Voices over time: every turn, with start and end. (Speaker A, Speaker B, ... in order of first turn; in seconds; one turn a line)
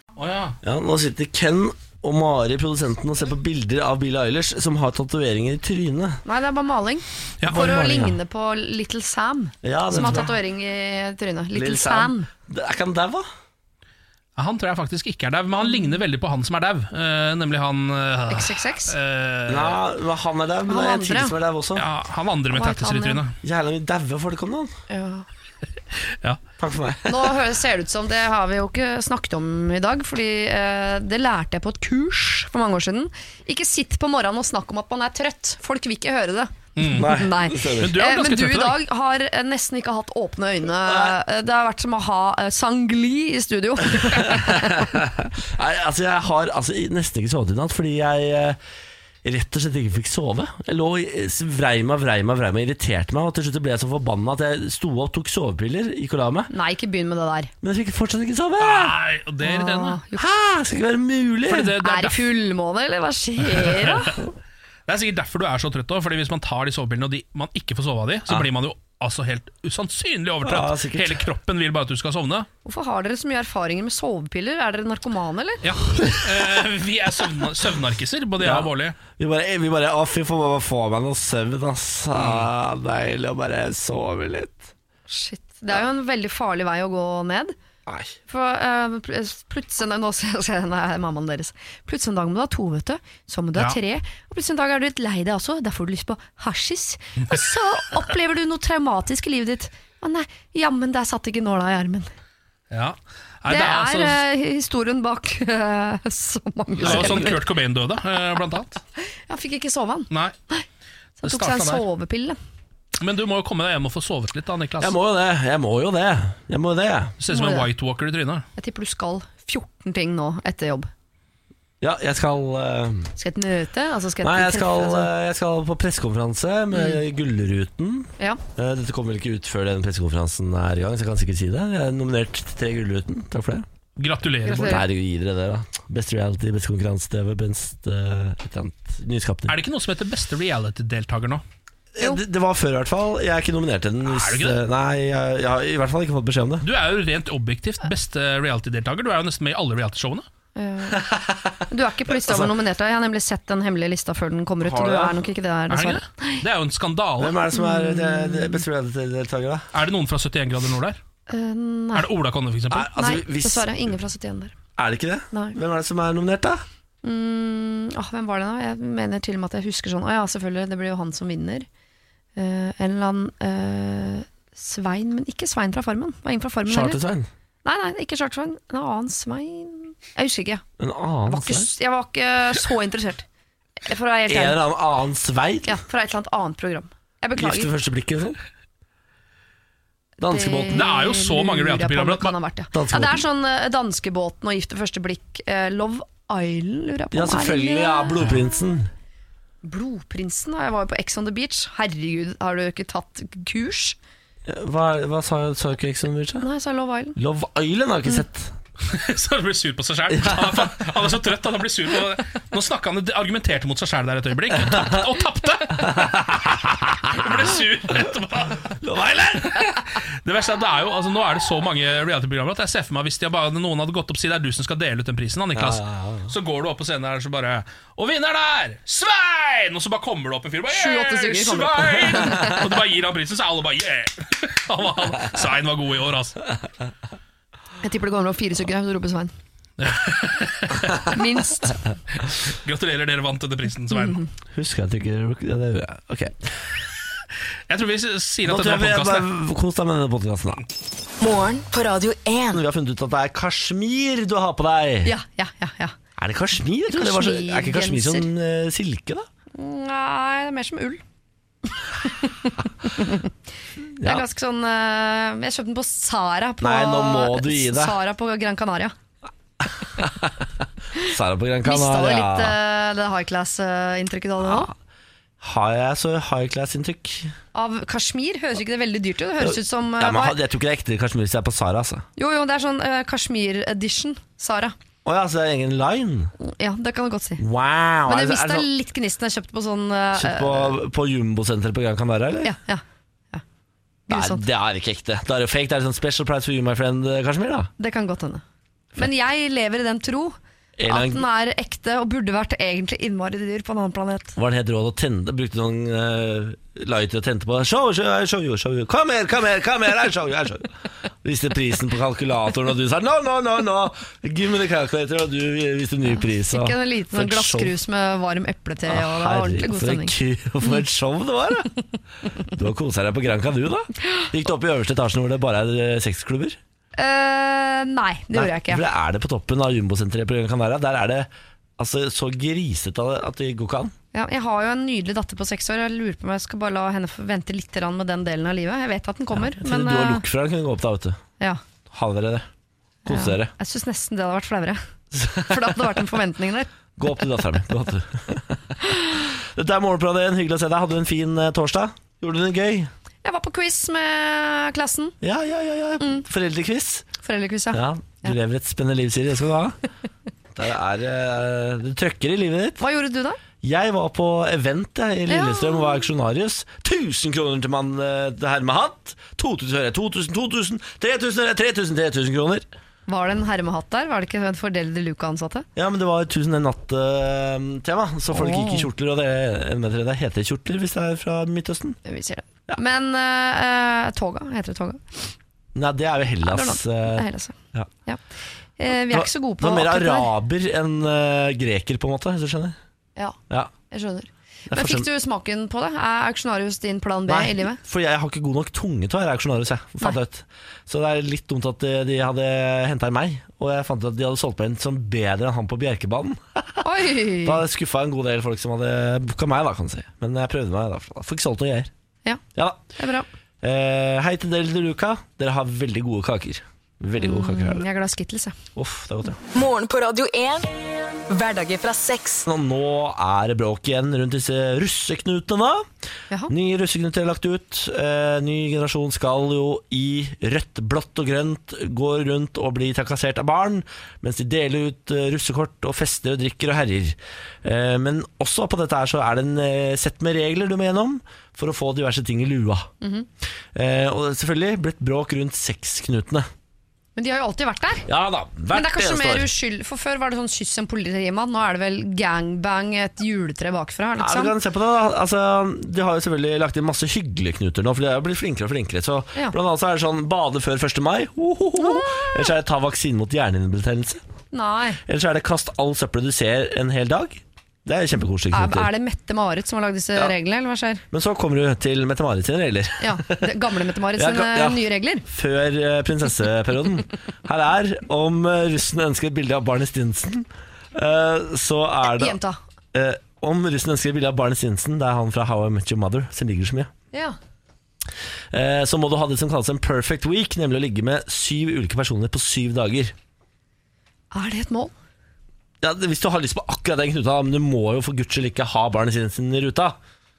Speaker A: 0.2-0.6
Speaker B: 0.6-6.2
Speaker C: 6.2-12.3
Speaker B: 7.5-8.2
Speaker B: 9.6-10.3
Speaker B: 11.5-13.3
Speaker A: 14.4-19.8
Speaker C: 15.6-16.0
Speaker C: 18.3-19.0
Speaker B: 19.5-21.9
Speaker C: 20.7-21.4
Speaker A: 21.8-23.4
Speaker C: 22.5-23.2
Speaker B: 23.4-24.7
Speaker C: 24.9-25.3
Speaker A: 26.1-26.4
Speaker B: 26.6-27.4
Speaker C: 27.1-45.0
Speaker A: 36.8-37.1
Speaker B: 36.9-38.0
Speaker A: 37.8-38.8
Speaker B: 40.8-41.1
Speaker B: 43.9-48.6
Speaker B: 49.2-56.5
Speaker C: 56.5-57.5
Speaker B: 57.6-59.0
Speaker A: 58.6-60.0
Speaker C: 59.4-60.3
Speaker B: 60.2-61.8
Speaker A: 61.5-62.2
Speaker C: 61.8-64.2
Speaker A: 63.6-64.0
Speaker A: 64.9-72.5
Speaker B: 70.4-71.2
Speaker C: 72.7-75.6
Speaker A: 75.6-79.0
Speaker B: 76.0-76.4
Speaker B: 78.4-84.7
Speaker A: 82.2-82.4
Speaker C: 85.1-87.5
Speaker B: 87.9-88.2
Speaker C: 88.3-102.1
Speaker A: 102.7-104.2
Speaker C: 103.5-107.4
Speaker B: 106.8-107.4
Speaker A: 106.8-108.8
Speaker C: 109.3-110.7
Speaker A: 110.1-110.4
Speaker A: 111.2-111.8
Speaker C: 111.2-112.4
Speaker A: 113.0-115.0
Speaker B: 114.8-117.2
Speaker A: 117.2-118.5
Speaker C: 117.3-117.7
Speaker C: 118.6-120.9
Speaker B: 121.8-123.1
Speaker C: 123.2-125.1
Speaker B: 124.2-133.7
Speaker C: 126.7-127.0
Speaker A: 134.0-134.8
Speaker C: 134.5-134.8
Speaker B: 134.5-139.5
Speaker A: 139.5-141.4
Speaker B: 142.0-146.7
Speaker A: 144.1-144.6
Speaker A: 146.6-150.3
Speaker C: 150.6-151.1
Speaker B: 150.9-152.5
Speaker C: 151.7-156.4
Speaker B: 154.6-155.2
Speaker A: 155.7-157.4
Speaker B: 157.2-159.7
Speaker C: 157.5-158.6
Speaker A: 159.7-161.0
Speaker C: 161.3-162.1
Speaker A: 161.9-162.9
Speaker B: 162.7-163.8
Speaker C: 162.9-164.5
Speaker B: 164.8-166.6
Speaker C: 167.0-171.7
Speaker C: 172.4-177.0
Speaker B: 176.7-177.3
Speaker C: 177.6-180.6
Speaker B: 180.8-181.7
Speaker C: 181.3-183.2
Speaker C: 183.8-184.6
Speaker B: 184.3-185.8
Speaker C: 185.7-187.7
Speaker B: 187.4-188.4
Speaker B: 190.2-190.9
Speaker C: 190.2-198.2
Speaker A: 190.7-192.4
Speaker B: 192.7-193.2
Speaker B: 197.1-198.9
Speaker C: 199.6-204.0
Speaker B: 204.5-206.5
Speaker C: 206.4-207.2
Speaker B: 207.2-208.6
Speaker A: 208.8-216.3
Speaker B: 210.1-210.8
Speaker B: 214.7-215.0
Speaker B: 215.8-217.3
Speaker A: 217.1-218.8
Speaker B: 218.8-219.8
Speaker A: 219.5-236.4
Speaker B: 225.6-226.3
Speaker C: 230.7-232.6
Speaker C: 237.8-239.3
Speaker A: 239.8-241.3
Speaker C: 241.1-241.8
Speaker A: 242.2-244.2
Speaker C: 243.9-244.3
Speaker B: 244.5-246.5
Speaker A: 247.7-249.3
Speaker B: 248.5-250.6
Speaker D: 251.2-252.6
Speaker B: 252.5-255.2
Speaker C: 255.1-256.0
Speaker B: 256.2-259.3
Speaker C: 256.9-258.3
Speaker C: 259.6-261.0
Speaker C: 261.7-263.3
Speaker B: 263.8-264.2
Speaker C: 264.0-268.9
Speaker B: 266.6-268.0
Speaker B: 269.8-272.6
Speaker C: 271.6-274.7
Speaker B: 274.4-274.7
Speaker B: 275.4-277.3
Speaker C: 277.5-280.4
Speaker B: 279.4-282.1
Speaker C: 282.2-284.8
Speaker B: 285.1-286.3
Speaker C: 286.4-287.4
Speaker B: 287.4-288.7
Speaker C: 288.1-290.8
Speaker B: 290.2-292.5
Speaker C: 292.4-293.4
Speaker C: 294.1-294.4
Speaker B: 294.1-297.7
Speaker C: 297.8-298.4
Speaker C: 299.0-300.4
Speaker B: 300.8-301.2
Speaker C: 300.9-304.4
Speaker B: 304.4-310.7
Speaker B: 311.2-317.8
Speaker C: 316.2-320.8
Speaker B: 318.9-321.7
Speaker B: 322.6-326.6
Speaker C: 327.0-328.9
Speaker B: 328.3-333.9
Speaker C: 334.1-340.2
Speaker B: 339.4-341.2
Speaker B: 341.9-342.5
Speaker B: 343.1-343.5
Speaker C: 343.1-344.8
Speaker B: 345.1-345.8
Speaker C: 345.3-346.7
Speaker B: 347.0-352.9
Speaker C: 353.2-355.2
Speaker B: 355.2-357.1
Speaker C: 357.2-358.3
Speaker B: 357.7-359.8
Speaker B: 360.5-362.8
Speaker C: 362.8-363.4
Speaker B: 363.6-372.6
Speaker C: 365.3-366.0
Speaker C: 373.1-375.7
Speaker B: 375.8-382.0
Speaker C: 378.3-378.9
Speaker C: 382.1-385.2
Speaker B: 385.8-387.9
Speaker C: 386.4-388.2
Speaker C: 388.8-390.3
Speaker B: 388.9-392.8
Speaker C: 393.9-397.8
Speaker B: 394.7-395.1
Speaker B: 397.3-406.9
Speaker C: 406.8-407.6
Speaker B: 407.4-411.9
Speaker B: 412.6-412.8
Speaker C: 413.0-413.3
Speaker B: 413.6-417.9
Speaker C: 417.2-418.6
Speaker B: 418.8-419.4
Speaker D: 419.5-420.7
Speaker D: 421.3-422.5
Speaker B: 422.4-425.9
Speaker B: 426.5-442.9
Speaker C: 443.0-443.3
Speaker B: 443.7-446.5
Speaker C: 447.2-448.1
Speaker B: 448.1-449.5
Speaker C: 448.7-454.6
Speaker B: 454.2-464.2
Speaker C: 461.8-462.5
Speaker C: 464.5-465.0
Speaker B: 465.1-468.9
Speaker C: 468.5-471.0
Speaker B: 471.1-473.5
Speaker C: 473.0-475.2
Speaker B: 474.2-482.4
Speaker C: 482.1-482.6
Speaker B: 482.9-486.9
Speaker B: 488.5-493.1
Speaker C: 494.3-494.9
Speaker B: 495.8-500.0